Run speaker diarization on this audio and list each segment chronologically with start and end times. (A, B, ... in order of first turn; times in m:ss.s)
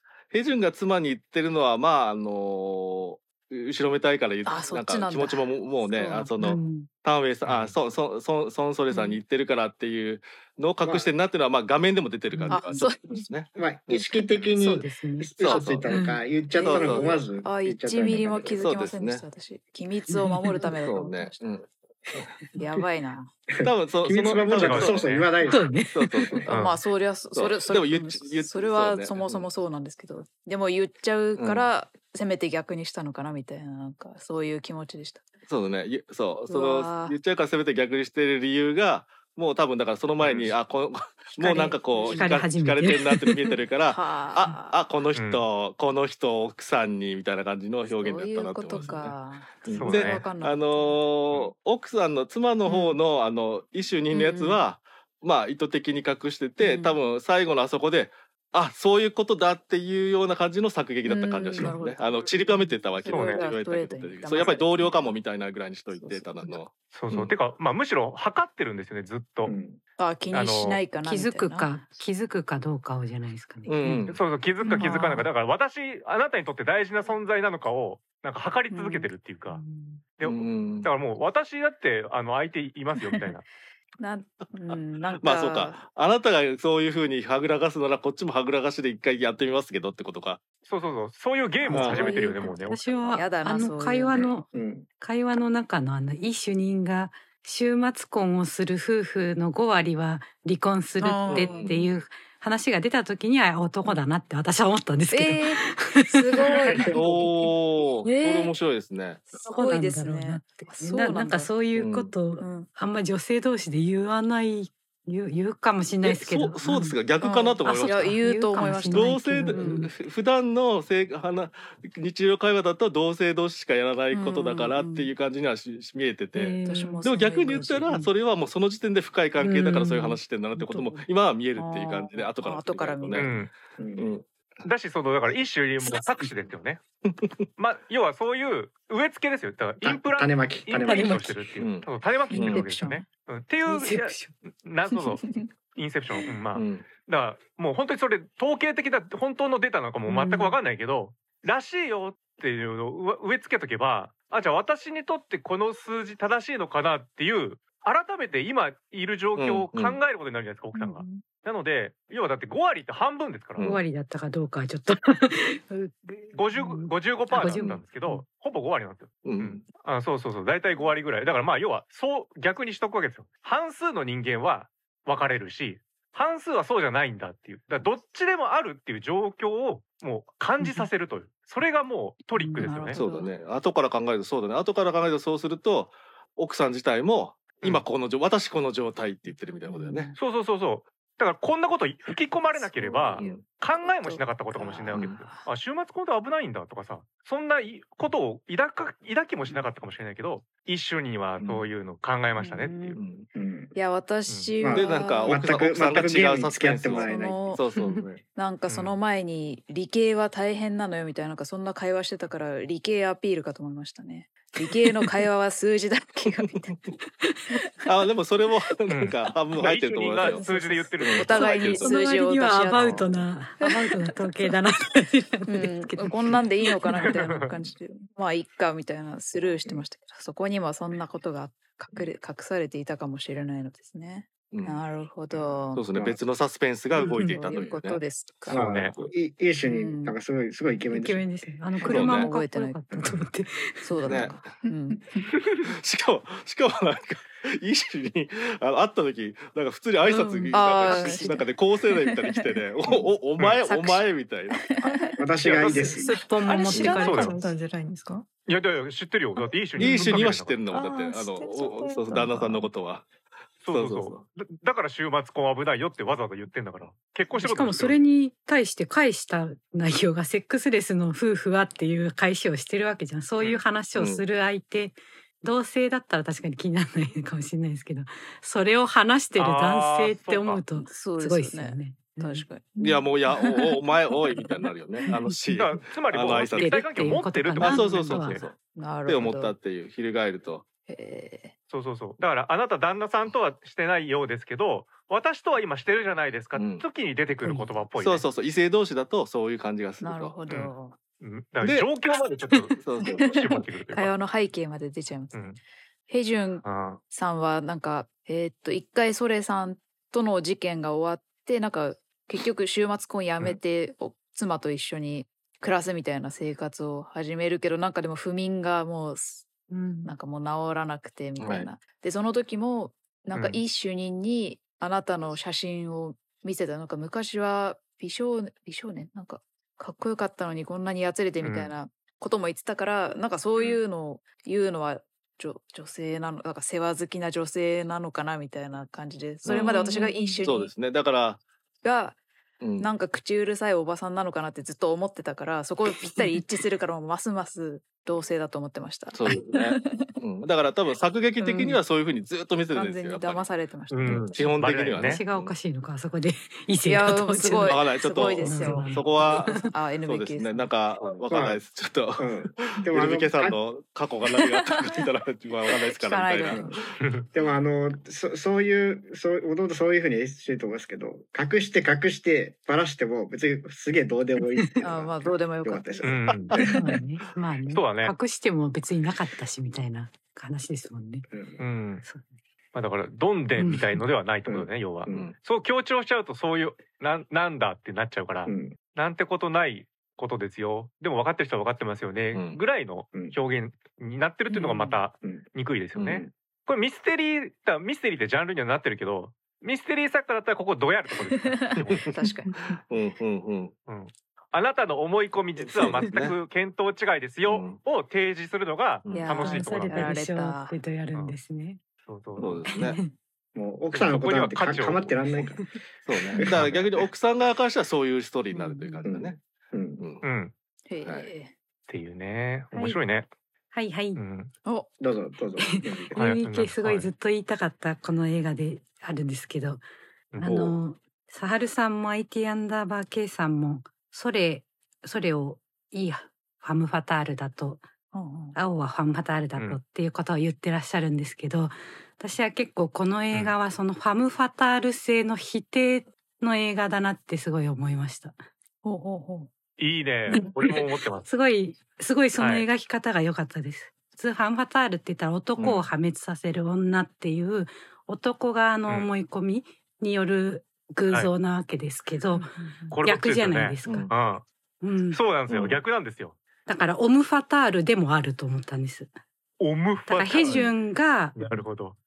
0:00.3-0:14.6 A
0:04.4-0:06.5 B
0:06.4-0:06.9 C
0:07.4-0:07.8 D
0:08.9-0:09.2 B
0:10.8-0:11.1 E
0:12.3-0:12.8 C
0:12.5-0:13.2 B
0:13.5-0:18.7 E
0:14.6-0:16.2 C
0:15.4-0:15.8 A
0:16.5-0:17.3 A
0:16.6-0:21.4 B
0:18.6-0:19.2 A
0:20.1-0:20.7 C
0:20.6-0:22.3 A
0:22.6-0:23.3 B
0:23.6-0:25.7 E
0:23.6-0:25.3 A
0:24.5-0:25.3 D
0:25.4-0:26.4 C
0:25.9-0:26.6 A
0:26.5-0:26.8 D
0:26.5-0:35.2 B
0:27.3-0:29.5 A
0:31.4-0:31.7 A
0:35.5-1:07.3 A
0:36.5-0:37.2 B
0:40.2-0:40.6 D
0:41.4-0:42.4 B
0:41.9-0:43.6 C
0:43.8-0:44.8 B
0:45.1-0:45.4 D
0:47.9-0:51.0 B
0:49.7-0:50.2 D
0:52.6-0:53.0 B
0:54.1-0:54.6 B
0:56.6-0:57.0 B
1:01.0-1:05.2 B
1:03.1-1:03.5 D
1:05.9-1:06.6 B
1:06.9-1:09.5 D
1:09.4-1:09.8 E
1:10.0-1:11.7 B
1:10.3-1:10.8 D
1:11.0-1:14.1 C
1:13.7-1:14.2 A
1:14.1-1:19.6 D
1:14.6-1:15.2 C
1:14.7-1:14.9 B
1:18.7-1:19.1 B
1:19.5-1:20.0 C
1:20.2-1:23.4 D
1:20.2-1:20.9 A
1:24.0-1:25.8 B
1:25.2-1:30.4 A
1:30.6-1:32.8 D
1:31.7-1:34.5 C
1:31.7-1:32.1 A
1:31.7-1:32.5 B
1:33.1-1:34.3 B
1:34.5-1:34.8 E
1:35.0-1:46.9 C
1:41.0-1:41.6 B
1:41.3-1:41.9 A
1:45.1-1:45.6 B
1:46.1-1:47.5 B
1:46.7-1:49.3 A
1:48.0-1:48.5 B
1:49.3-1:51.6 B
1:49.4-1:59.9 C
1:51.7-1:52.2 A
1:52.4-1:52.7 B
1:56.0-1:58.2 A
1:57.2-1:59.8 B
1:58.7-2:13.4 A
2:04.1-2:05.1 B
2:06.3-2:07.1 C
2:06.6-2:08.0 B
2:09.4-2:11.0 C
2:11.6-2:13.3 B
2:13.1-2:13.5 D
2:13.8-2:14.1 E
2:14.0-2:14.2 A
2:14.6-2:16.8 D
2:17.0-2:17.4 A
2:17.6-2:43.7 D
2:19.8-2:21.4 E
2:20.8-2:21.3 C
2:21.6-2:22.7 A
2:22.4-2:23.0 B
2:23.6-2:24.3 C
2:25.0-2:25.5 B
2:26.5-2:26.9 A
2:30.0-2:30.6 C
2:39.4-2:40.0 A
2:43.6-2:43.8 A
2:43.6-2:48.2 C
2:46.3-3:03.0 D
2:47.5-2:47.8 A
2:49.2-2:49.6 A
3:00.6-3:00.9 C
3:02.3-3:02.9 C
3:02.6-3:03.3 B
3:02.9-3:10.1 A
3:09.7-3:10.2 C
3:10.2-3:23.0 D
3:12.5-3:15.5 B
3:13.2-3:13.4 A
3:14.9-3:15.2 A
3:22.4-3:23.0 B
3:23.0-3:23.3 A
3:23.3-3:23.7 E
3:23.7-3:25.4 B
3:24.3-3:24.5 D
3:24.6-3:27.6 E
3:24.7-3:28.2 A
3:27.0-3:36.8 B
3:28.7-3:29.0 D
3:36.4-3:36.8 A
3:37.8-3:40.4 A
3:38.9-3:41.8 D
3:40.2-3:44.1 B
3:41.0-3:41.9 A
3:41.3-3:47.2 C
3:45.5-3:55.9 B
3:47.0-3:47.5 D
3:54.5-3:54.8 A
3:55.7-3:58.0 A
3:55.9-3:56.2 E
3:57.0-3:58.6 B
3:57.0-3:57.5 C
3:58.5-3:58.9 D
3:58.5-4:01.4 E
3:59.6-4:00.1 B
4:00.9-4:04.1 C
4:01.8-4:03.1 B
4:01.8-4:02.3 A
4:03.8-4:05.3 B
4:04.0-4:04.6 A
4:05.6-4:14.6 A
4:10.5-4:12.6 B
4:13.6-4:15.2 B
4:15.2-4:16.1 E
4:15.4-4:15.8 D
4:15.6-4:18.3 F
4:15.9-4:17.5 C
4:16.9-4:17.4 D
4:18.5-4:20.6 D
4:19.8-4:23.1 A
4:19.8-4:22.7 F
4:23.6-4:28.0 D
4:23.7-4:24.2 A
4:27.3-4:42.4 C
4:34.0-4:34.2 A
4:39.3-4:40.6 D
4:40.8-4:43.5 B
4:42.8-4:46.8 A
4:45.5-4:48.4 D
4:46.5-4:48.4 C
4:47.6-4:50.6 A
4:48.7-4:49.6 B
4:50.9-4:51.5 B
4:51.7-4:58.2 D
4:56.5-4:56.8 A
4:57.4-4:57.7 C
4:58.0-5:00.3 A
5:00.0-5:01.0 B
5:00.5-5:04.1 D
5:01.6-5:01.9 A
5:02.8-5:03.2 A
5:03.0-5:05.4 B
5:05.3-5:05.6 D
5:06.1-5:19.5 B
5:06.6-5:07.0 D
5:19.7-5:20.1 C
5:20.0-5:40.7 B
5:21.4-5:21.7 A
5:23.3-5:23.6 D
5:31.4-5:31.7 D
5:39.4-5:41.4 A
5:39.8-5:40.4 C
5:41.8-5:42.2 B
5:42.6-5:42.9 A
5:42.8-5:50.2 B
5:49.1-5:53.5 A
5:51.4-5:51.8 B
5:52.7-5:54.6 B
5:53.9-5:55.2 D
5:54.0-5:55.5 A
5:55.0-5:59.7 C
5:56.8-6:00.7 B
5:57.6-6:06.9 A
6:01.3-6:01.6 E
6:02.2-6:03.6 E
6:04.3-6:05.0 B
6:05.7-6:06.8 B
6:07.0-6:07.3 D
6:07.3-6:16.4 E
6:14.8-6:17.0 B
6:16.0-6:16.5 D
6:16.3-6:16.6 A
6:16.6-6:21.3 C
6:17.7-6:18.1 D
6:21.3-6:21.6 E
6:21.6-6:22.0 D
6:22.0-6:22.3 C
6:22.7-6:42.0 D
6:23.6-6:24.0 C
6:24.4-6:25.3 E
6:28.4-6:28.8 E
6:32.3-6:32.6 A
6:34.6-6:34.9 C
6:36.0-6:36.2 A
6:41.4-6:42.8 B
6:41.8-6:42.2 A
6:42.9-6:43.7 A
6:43.9-6:50.1 D
6:45.7-6:46.4 A
6:47.4-6:47.8 A
6:49.0-6:49.4 A
6:49.1-6:50.8 B
6:49.3-6:51.8 C
6:52.0-6:52.7 D
6:52.4-6:53.0 A
6:52.7-6:53.1 C
6:53.5-6:55.7 E
6:53.9-6:55.2 D
6:56.0-6:59.4 A
6:56.5-6:56.9 D
6:58.5-6:59.0 C
6:59.0-7:00.0 E
7:00.0-7:00.2 A
7:00.2-7:00.5 D
7:00.9-7:01.5 B
7:01.0-7:01.3 A
7:01.9-7:03.3 D
7:02.7-7:03.0 C
7:03.7-7:04.2 C
7:04.1-7:04.5 D
7:05.0-7:06.2 E
7:05.6-7:09.8 C
7:06.2-7:07.1 D
7:10.3-7:10.6 D
7:10.4-7:17.8 C
7:10.4-7:10.8 A
7:18.1-7:18.6 B
7:18.5-7:28.4 C
7:19.5-7:19.8 D
7:28.8-7:29.5 B
7:29.8-7:31.3 D
7:30.3-7:44.1 C
7:32.4-7:32.6 D
7:35.6-7:35.8 A
7:42.9-7:44.4 D
7:43.8-7:44.1 A
7:44.8-7:45.2 C
7:45.1-7:46.4 D
7:45.5-7:45.8 A
7:46.7-7:49.1 C
7:49.6-7:50.6 D
7:50.1-7:51.6 C
7:51.3-7:52.0 D